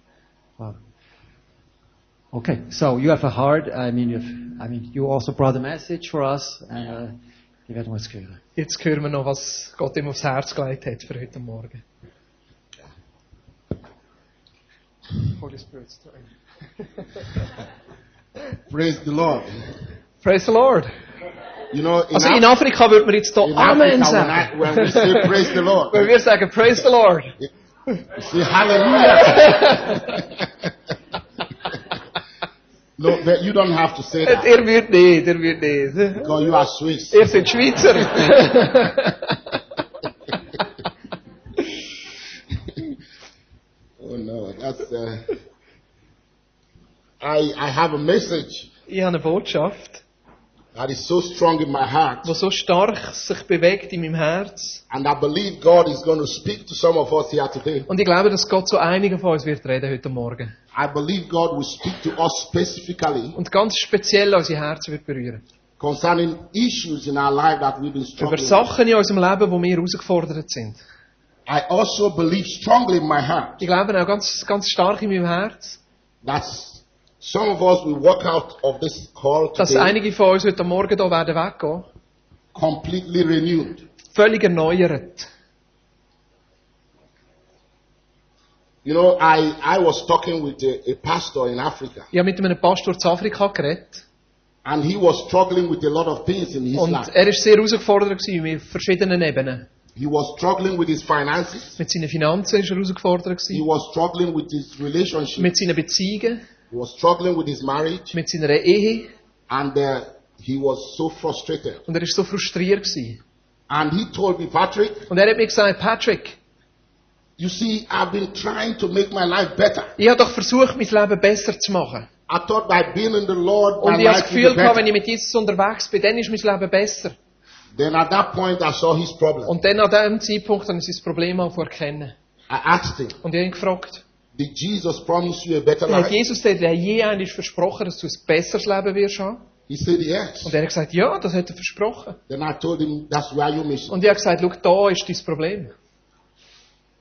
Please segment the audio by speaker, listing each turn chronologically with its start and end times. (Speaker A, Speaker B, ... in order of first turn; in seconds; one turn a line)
Speaker A: 2.3-7.1
Speaker A: 7.7-8.4
Speaker B: 8.6-11.8
Speaker B: 15.3-16.3
Speaker B: 17.0-17.3
Speaker C: 18.7-19.7
Speaker B: 20.2-20.9
Speaker C: 21.7-22.5
Speaker B: 22.1-27.3
Speaker C: 23.4-26.1
Speaker C: 28.1-30.2
Speaker B: 28.9-30.2
Speaker C: 33.0-34.5
Speaker B: 34.2-36.3
Speaker C: 36.2-37.3
Speaker B: 37.1-39.5
Speaker C: 44.0-45.4
Speaker C: 47.2-48.7
Speaker B: 48.9-50.0
Speaker C: 50.7-52.3
Speaker B: 52.2-54.8
Speaker C: 54.9-57.9
Speaker B: 57.9-60.5
Speaker C: 60.7-63.4
Speaker B: 63.4-65.4
Speaker C: 65.8-68.7
Speaker B: 68.2-70.8
Speaker C: 71.5-73.6
Speaker B: 73.6-75.8
Speaker C: 76.2-80.0
Speaker B: 79.6-81.9
Speaker C: 82.5-83.8
Speaker B: 84.1-85.3
Speaker C: 88.8-92.1
Speaker B: 92.1-94.0
Speaker C: 94.6-97.1
Speaker B: 96.7-99.7
Speaker C: 100.0-101.8
Speaker B: 101.8-103.6
Speaker C: 103.5-105.5
Speaker B: 105.4-106.4
Speaker C: 106.7-108.1
Speaker B: 108.1-109.1
Speaker C: 109.5-111.8
Speaker B: 111.9-113.2
Speaker C: 113.7-115.1
Speaker B: 115.1-116.4
Speaker C: 117.4-119.9
Speaker B: 120.0-122.1
Speaker C: 122.3-124.8
Speaker B: 123.8-127.2
Speaker C: 127.7-129.5
Speaker B: 129.4-132.1
Speaker C: 132.5-133.2
Speaker B: 133.2-134.0
Speaker C: 134.3-136.2
Speaker B: 135.9-139.4
Speaker C: 139.7-140.5
Speaker B: 140.4-142.2
Speaker C: 142.3-144.0
Speaker B: 143.9-145.7